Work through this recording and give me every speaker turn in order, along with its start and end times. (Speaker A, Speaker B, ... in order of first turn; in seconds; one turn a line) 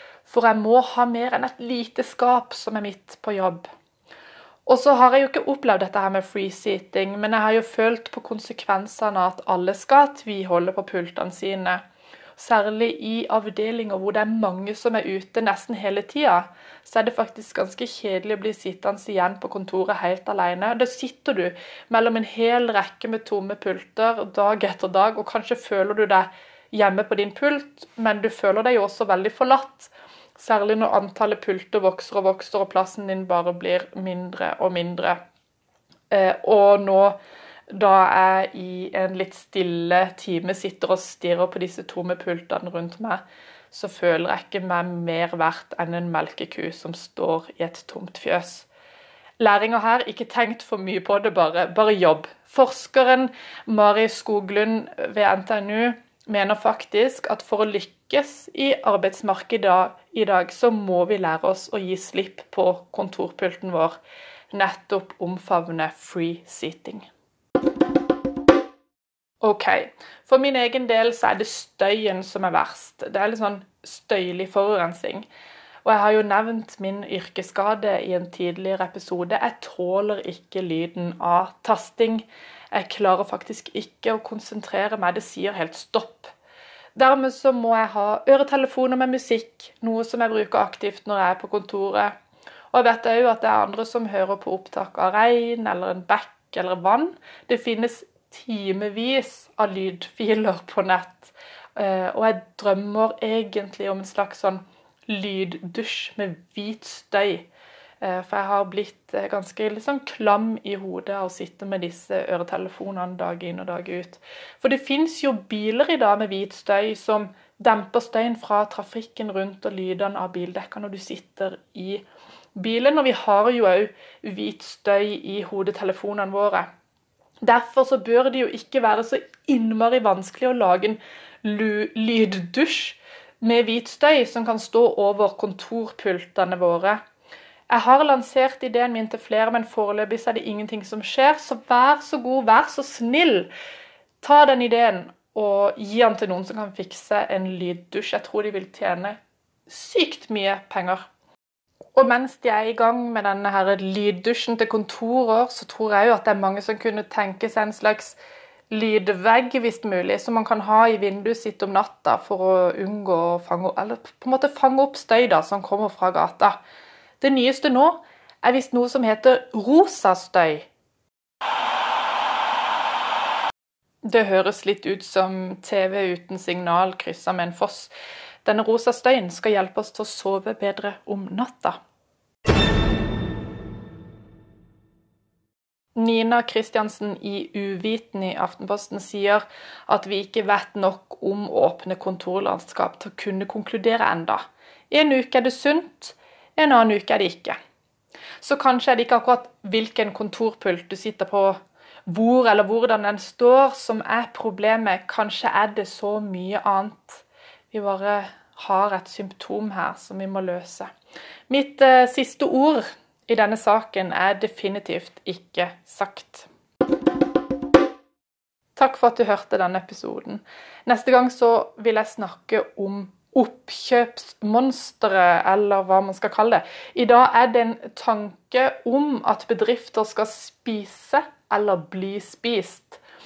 Speaker A: 0.3-3.7
Speaker A: 4.7-11.8
Speaker A: 12.4-35.2
Speaker A: 36.1-37.2
Speaker A: 37.7-48.7
Speaker A: 49.4-64.0
Speaker A: 64.5-67.1
Speaker A: 69.4-75.3
Speaker A: 75.8-86.3
Speaker A: 87.0-92.1
Speaker A: 92.7-107.5
Speaker A: 108.0-122.0
Speaker A: 122.5-126.7
Speaker A: 127.4-137.0
Speaker A: 137.7-143.5
Speaker A: 144.2-149.2
Speaker A: 149.7-151.1
Speaker A: 152.0-158.2
Speaker A: 158.7-166.6
Speaker A: 167.2-170.7
Speaker A: 174.0-177.9
Speaker A: 178.4-181.8
Speaker A: 186.0-197.6
Speaker A: 198.4-210.9
Speaker A: 211.5-216.5
Speaker A: 218.8-233.0